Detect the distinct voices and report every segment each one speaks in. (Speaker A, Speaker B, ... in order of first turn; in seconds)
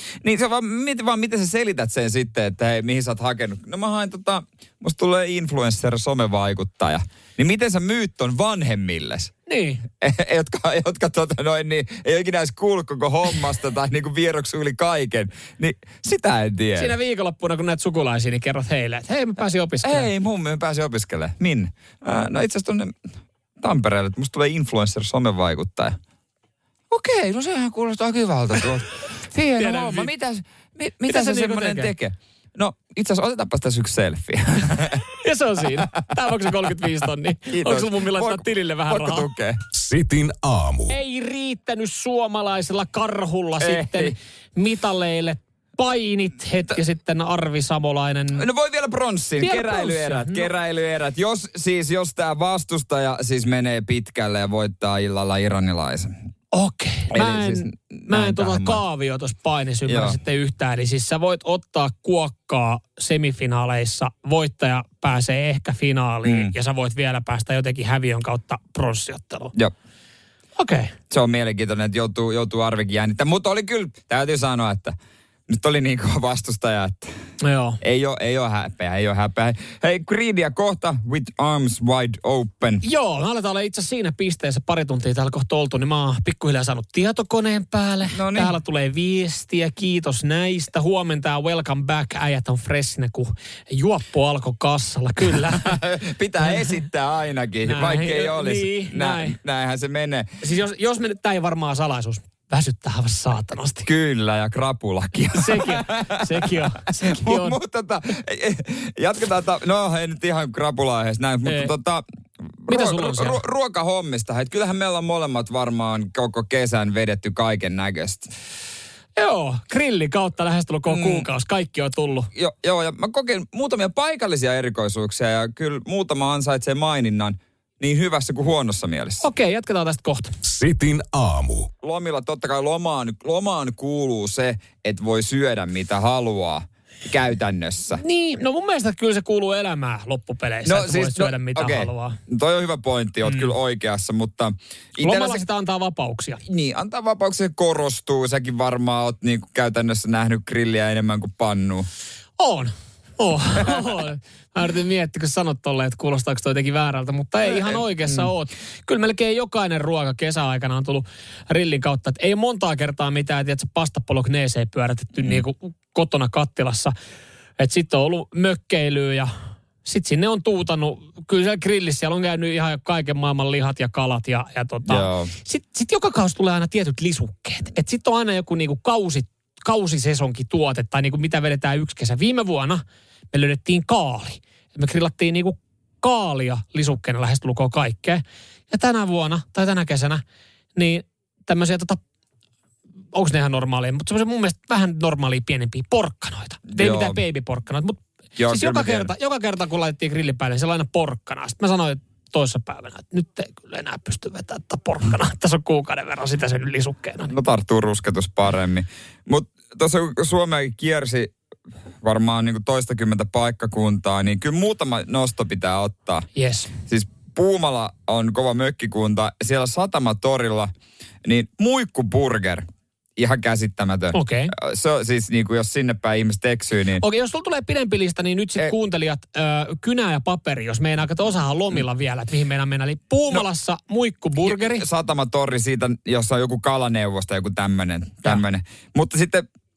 Speaker A: 0.2-9.3, 10.0-16.9, 19.8-23.1, 23.6-26.0, 26.9-35.0, 37.5-39.6, 43.6-44.1, 48.4-56.2, 57.1-58.8, 59.9-60.2, 66.2-66.5, 71.1-75.0, 75.5-77.1, 77.8-82.8, 88.1-88.5, 95.3-100.3, 103.8-118.3, 120.9-121.3, 122.3-129.2, 131.8-138.0, 140.7-145.4, 146.5-151.9, 157.5-158.3, 174.9-175.3, 196.7-197.2, 198.4-199.1, 207.3-211.3, 212.0-216.3, 216.9-220.7, 221.2-222.7, 223.2-227.0, 234.4-239.5
Speaker B: 9.5-9.8, 16.8-20.1, 29.6-30.1, 31.1-31.9, 35.1-39.3, 40.9-48.5, 49.4-50.5, 56.5-69.5, 70.6-70.9, 77.4-77.8, 82.8-95.8, 97.7-99.4, 100.4-103.9, 105.4-107.6, 111.5-111.7, 112.7-113.4, 119.2-122.3, 129.2-130.3, 138.0-142.2, 145.0-146.4, 152.4-166.9, 167.6-169.3, 169.8-190.2, 190.8-192.0, 193.1-207.3, 216.3-216.7, 224.1-224.5, 227.0-234.9
Speaker C: 39.7-41.0, 130.4-131.7